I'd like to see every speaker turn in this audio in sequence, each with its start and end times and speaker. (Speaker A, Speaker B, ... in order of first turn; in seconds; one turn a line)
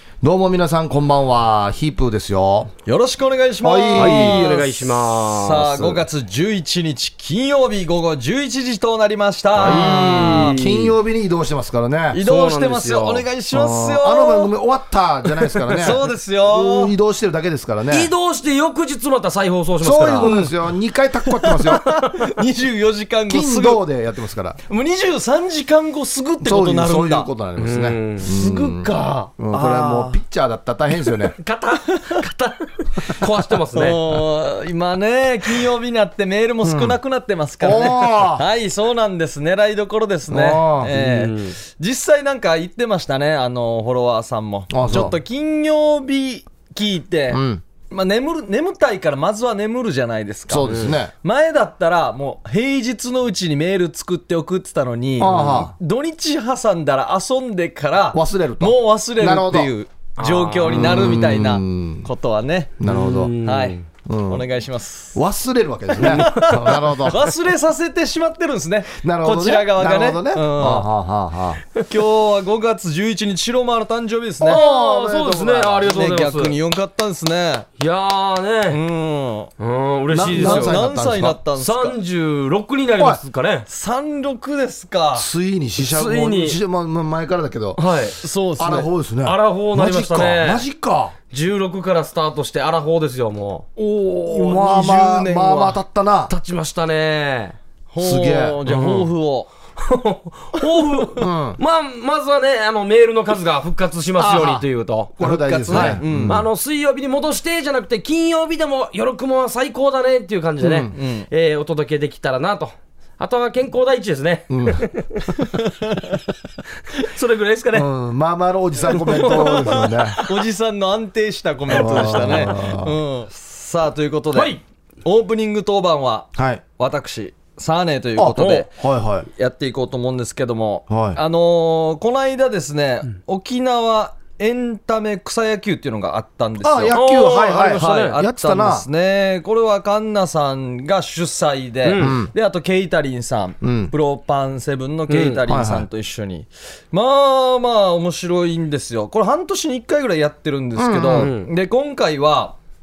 Speaker A: 0.2-2.7
Speaker B: 2.9-10.6
Speaker A: 3.6-4.5
Speaker C: 4.0-6.0
Speaker A: 9.6-12.2
Speaker C: 9.6-10.9
Speaker B: 12.1-14.5
Speaker C: 12.2-13.2
Speaker A: 13.5-18.1
Speaker B: 15.6-16.9
Speaker C: 17.9-20.3
Speaker A: 19.8-22.0
Speaker B: 20.2-20.5
Speaker B: 21.4-23.8
Speaker A: 23.3-24.6
Speaker B: 24.7-27.3
Speaker A: 26.4-31.4
Speaker C: 27.6-29.3
Speaker B: 29.5-30.2
Speaker C: 31.4-34.1
Speaker B: 33.7-62.8
Speaker A: 36.6-37.0
Speaker A: 37.6-38.4
Speaker A: 40.3-40.9
Speaker C: 40.9-41.6
Speaker A: 44.7-45.2
Speaker A: 47.3-47.6
Speaker A: 50.5-51.1
Speaker C: 50.6-51.0
Speaker A: 55.2-55.7
Speaker A: 58.1-59.7
Speaker C: 60.2-60.9
Speaker A: 60.7-62.1
Speaker A: 62.8-63.3
Speaker C: 62.8-63.9
Speaker B: 63.4-65.2
Speaker A: 64.0-64.5
Speaker A: 65.1-67.3
Speaker B: 66.0-70.9
Speaker C: 66.1-66.4
Speaker A: 69.0-71.6
Speaker B: 71.9-74.6
Speaker A: 74.4-75.9
Speaker C: 74.5-76.6
Speaker B: 75.9-77.7
Speaker C: 77.8-78.8
Speaker B: 78.7-79.5
Speaker C: 79.6-80.8
Speaker A: 80.1-81.4
Speaker B: 80.3-82.0
Speaker C: 81.6-83.7
Speaker B: 83.7-85.3
Speaker A: 85.2-87.8
Speaker C: 85.8-86.6
Speaker C: 87.8-88.2
Speaker B: 88.2-88.9
Speaker A: 88.6-91.2
Speaker C: 89.2-90.6
Speaker C: 91.3-93.7
Speaker B: 93.8-95.8
Speaker A: 94.3-96.3
Speaker C: 96.3-97.6
Speaker B: 97.9-99.5
Speaker A: 98.0-99.1
Speaker C: 99.8-105.2
Speaker A: 101.2-101.6
Speaker A: 104.2-104.7
Speaker A: 105.2-106.5
Speaker B: 105.2-106.5
Speaker C: 105.7-115.5
Speaker A: 110.6-110.9
Speaker B: 110.9-111.3
Speaker A: 114.5-114.9
Speaker C: 116.9-117.9
Speaker A: 117.7-120.2
Speaker B: 119.0-128.7
Speaker C: 119.0-120.3
Speaker A: 121.7-123.0
Speaker C: 121.8-122.5
Speaker C: 124.3-124.6
Speaker A: 126.3-126.6
Speaker A: 128.2-129.3
Speaker C: 128.4-128.7
Speaker B: 129.4-137.0
Speaker A: 130.9-131.2
Speaker A: 136.6-138.9
Speaker C: 136.9-138.2
Speaker B: 137.8-152.6
Speaker C: 141.8-142.2
Speaker A: 142.0-142.3
Speaker A: 143.6-143.9
Speaker C: 145.1-145.4
Speaker A: 145.5-145.9
Speaker A: 150.8-151.3
Speaker C: 151.1-151.5